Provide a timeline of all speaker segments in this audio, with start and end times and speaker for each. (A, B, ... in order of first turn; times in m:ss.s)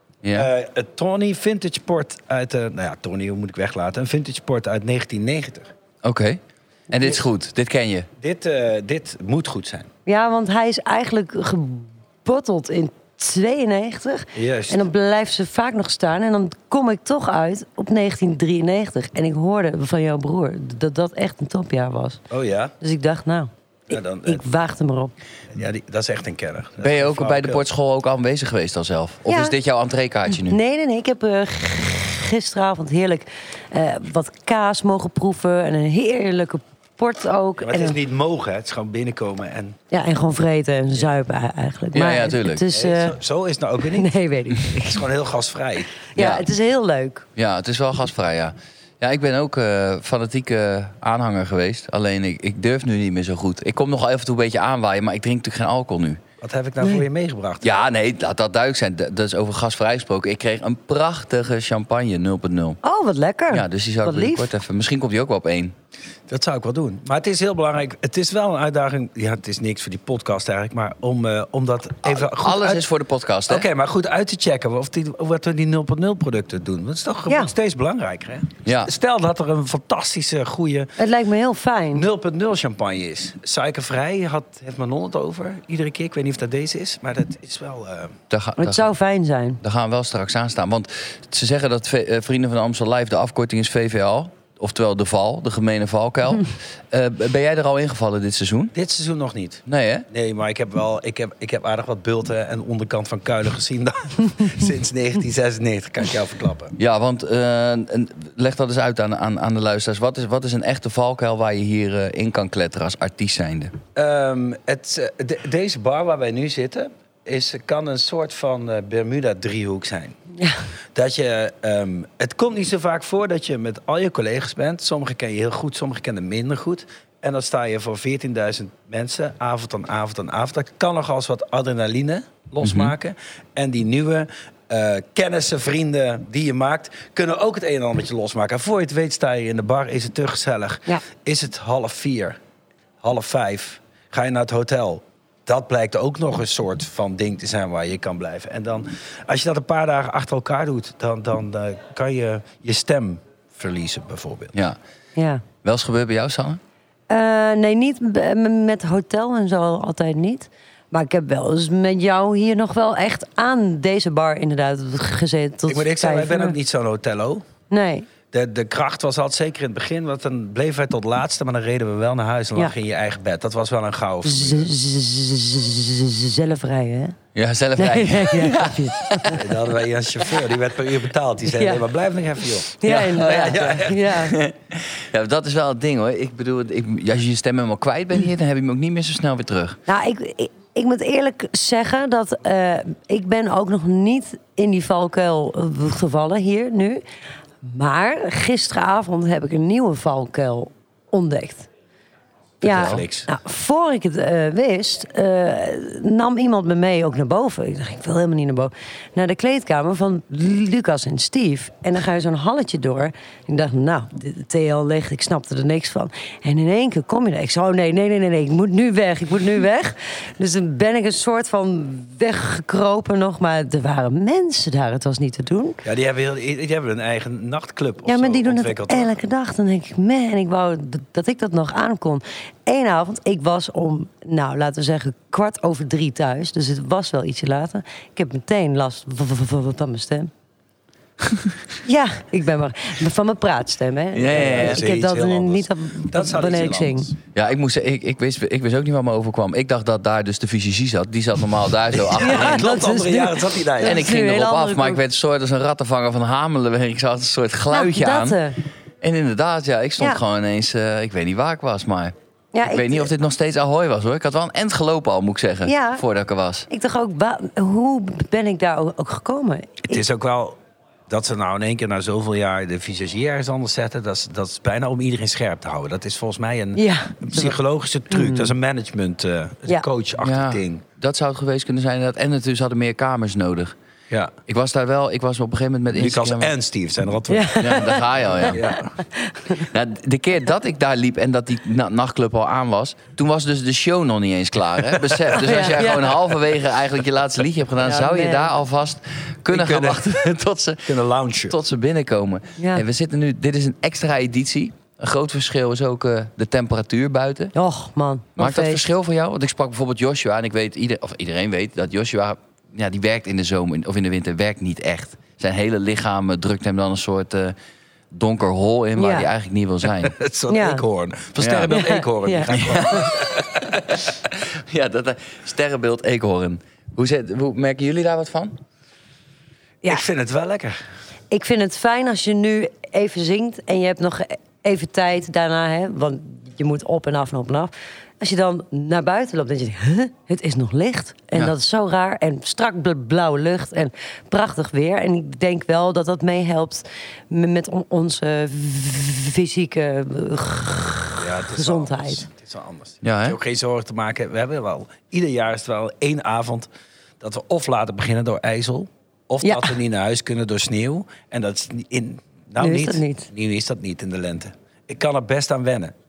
0:00.2-0:00.5 A
0:00.3-0:05.7 B
0:06.0-0:08.1 A
0:08.2-0:09.9 B
0:10.1-0:22.2 C
0:14.3-0:14.8 B
0:22.3-0:22.7 B
0:22.8-0:25.1 C
0:23.9-0:24.4 B
0:25.5-0:27.7 B
0:26.8-0:30.6 A
0:29.3-0:29.6 C
0:30.3-0:38.0 C
0:37.6-0:39.8 B
0:39.9-0:43.2 C
0:41.9-0:42.6 A
0:42.7-0:44.1 B
0:43.9-0:45.1 C
0:44.8-0:46.0 B
0:46.1-0:47.3 C
0:46.2-0:46.5 A
0:47.4-0:56.2 A
0:56.4-0:57.8 B
0:57.6-1:02.8 A
1:02.8-1:04.5 C
1:03.5-1:05.7 A
1:06.3-1:12.9 B
1:12.0-1:13.7 A
1:13.5-1:20.9 B
1:18.6-1:18.9 A
1:21.0-1:22.1 C
1:21.9-1:28.2 B
1:28.3-1:28.9 A
1:28.6-1:29.6 C
1:29.6-1:38.7 A
1:38.7-1:46.8 B
1:39.7-1:40.1 A
1:46.8-1:53.8 A
1:53.9-2:00.2 B
2:00.9-2:22.4 B
2:12.6-2:12.9 A
2:23.0-2:34.5 B
2:35.2-2:35.4 C
2:35.6-2:36.6 A
2:37.1-2:46.6 C
2:45.7-2:47.5 B
2:47.7-2:48.1 C
2:48.3-2:54.7 B
2:54.2-2:57.2 C
2:57.3-2:59.5 A
2:57.8-2:59.5 C
2:59.3-3:04.1 B
3:01.5-3:01.8 C
3:02.8-3:04.4 C
3:02.9-3:09.8 A
3:09.9-3:17.0 C
3:17.6-3:21.7 C
3:22.6-3:23.3 B
3:22.6-3:45.8 C
3:22.6-3:23.0 A
3:45.8-3:49.2 B
3:48.0-4:00.3 C
4:01.3-4:01.6 A
4:01.8-4:07.1 C
4:04.1-4:04.8 A
4:04.3-4:07.2 B
4:07.4-4:12.6 A
4:11.9-4:14.1 B
4:12.1-4:15.0 C
4:13.8-4:18.4 A
4:17.7-4:18.6 C
4:19.0-4:26.7 A
4:22.5-4:23.1 C
4:25.7-4:26.0 C
4:26.7-4:30.0 C
4:29.9-4:30.6 B
4:31.1-4:40.8 B
4:36.8-4:37.6 C
4:38.1-4:38.5 C
4:40.2-4:43.7 A
4:44.5-4:46.5 A
4:45.9-4:49.0 B
4:47.3-4:49.7 C
4:47.6-4:48.6 A
4:49.5-5:01.0 A
4:55.1-4:55.4 B
4:55.4-4:56.2 C
4:57.8-4:58.5 C
4:59.5-5:00.3 B
5:00.9-5:01.6 B
5:01.5-5:07.5 A
5:02.6-5:02.8 C
5:07.6-5:08.8 C
5:08.4-5:17.6 A
5:18.1-5:20.2 A
5:19.0-5:19.3 C
5:19.9-5:23.7 B
5:20.5-5:20.8 C
5:21.4-5:21.7 A
5:21.7-5:23.1 C
5:22.5-5:28.6 A
5:29.9-5:30.8 B
5:31.3-5:52.2 C
5:51.2-5:56.7 B
5:53.0-5:53.4 A
5:57.2-6:06.0 B
5:59.4-5:59.8 C
6:02.6-6:03.3 C